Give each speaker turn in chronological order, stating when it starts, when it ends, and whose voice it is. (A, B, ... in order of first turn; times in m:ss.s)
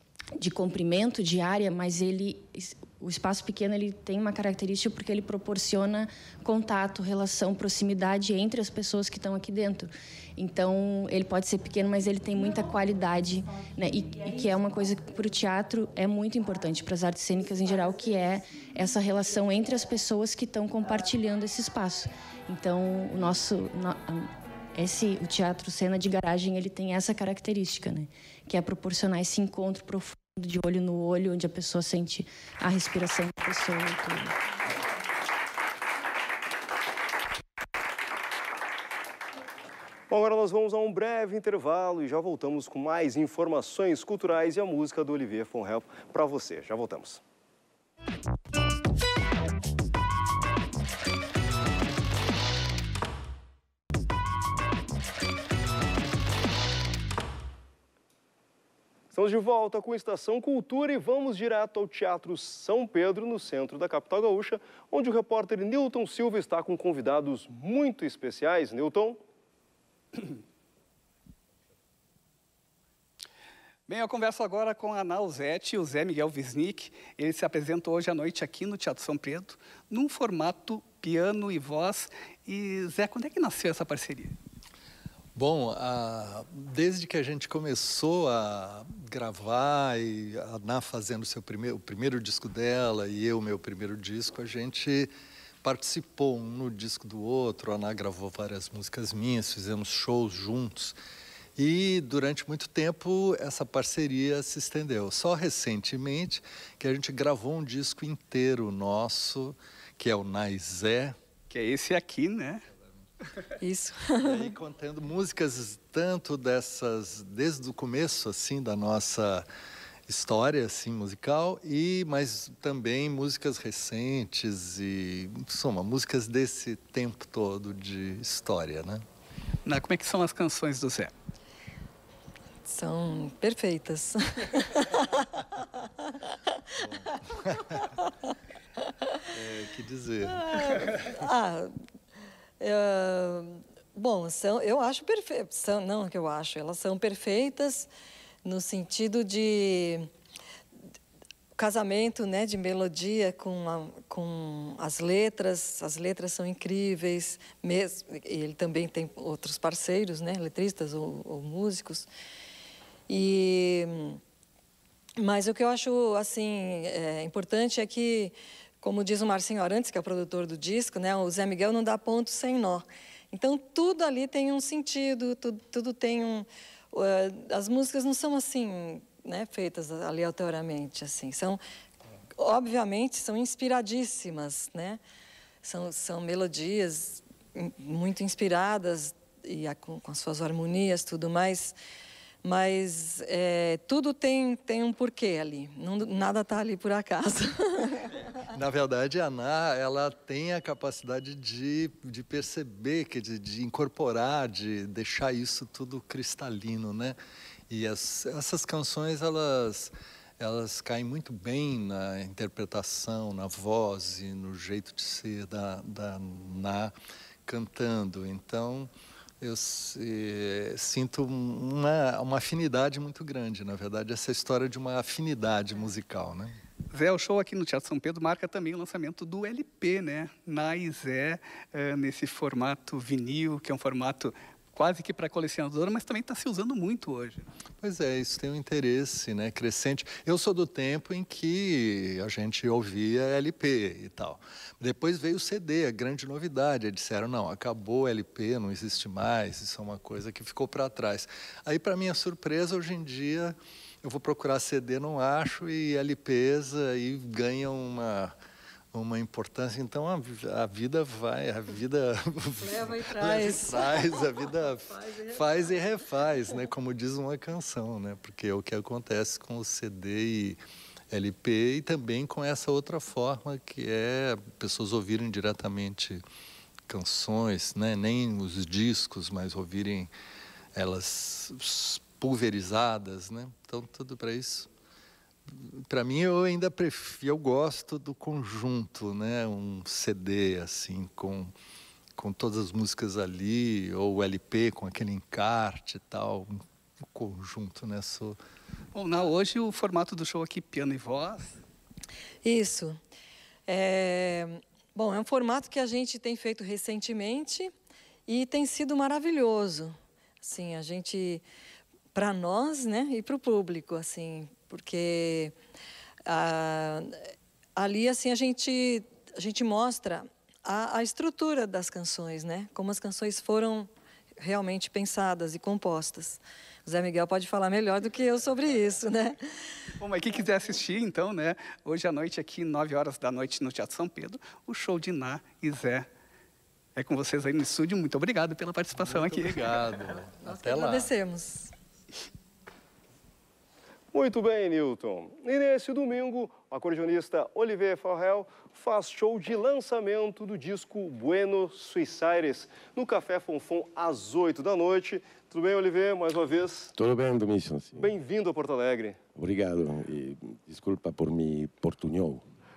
0:00.4-0:34.4 A
0:40.1-0:47.2 B
0:59.1-1:09.2 B
1:13.9-1:24.4 C
1:25.4-1:35.1 D
1:35.6-1:41.0 D
1:41.6-1:51.2 D
1:51.5-1:52.6 C
1:53.6-1:54.5 E
1:54.2-1:59.5 D
2:00.1-2:09.0 D
2:09.7-2:11.1 C
2:12.7-2:15.3 E
2:16.8-2:18.1 E
2:16.8-2:17.6 D
2:19.3-2:20.9 D
2:20.2-2:21.8 E
2:22.6-2:27.9 E
2:28.4-2:30.1 E
2:31.6-2:42.1 E
2:43.1-2:44.2 E
2:45.2-3:01.6 E
3:02.4-3:05.0 E
3:05.6-3:11.8 E
3:12.4-3:18.1 E
3:18.5-3:27.2 D
3:27.7-3:36.9 D
3:37.5-3:38.9 D
3:39.4-3:46.6 D
3:46.9-3:57.5 C
3:57.8-4:18.4 D
4:18.9-4:30.6 D
4:22.6-4:25.5 E
4:31.1-4:36.2 D
4:36.9-4:40.1 D
4:40.8-4:44.7 D
4:45.5-4:51.5 D
4:52.2-4:58.4 D
4:59.0-5:01.6 C
5:02.4-5:03.0 E
5:03.7-5:07.7 E
5:08.3-5:11.4 E
5:12.1-5:15.6 E
5:16.3-5:17.2 E
5:17.8-5:29.4 E
5:30.0-5:36.1 C
5:37.0-5:39.7 C
5:39.1-5:41.1 D
5:40.2-5:41.7 E
5:44.1-5:56.9 B
5:57.0-5:58.1 F
5:58.0-5:59.2 B
5:59.4-6:02.4 F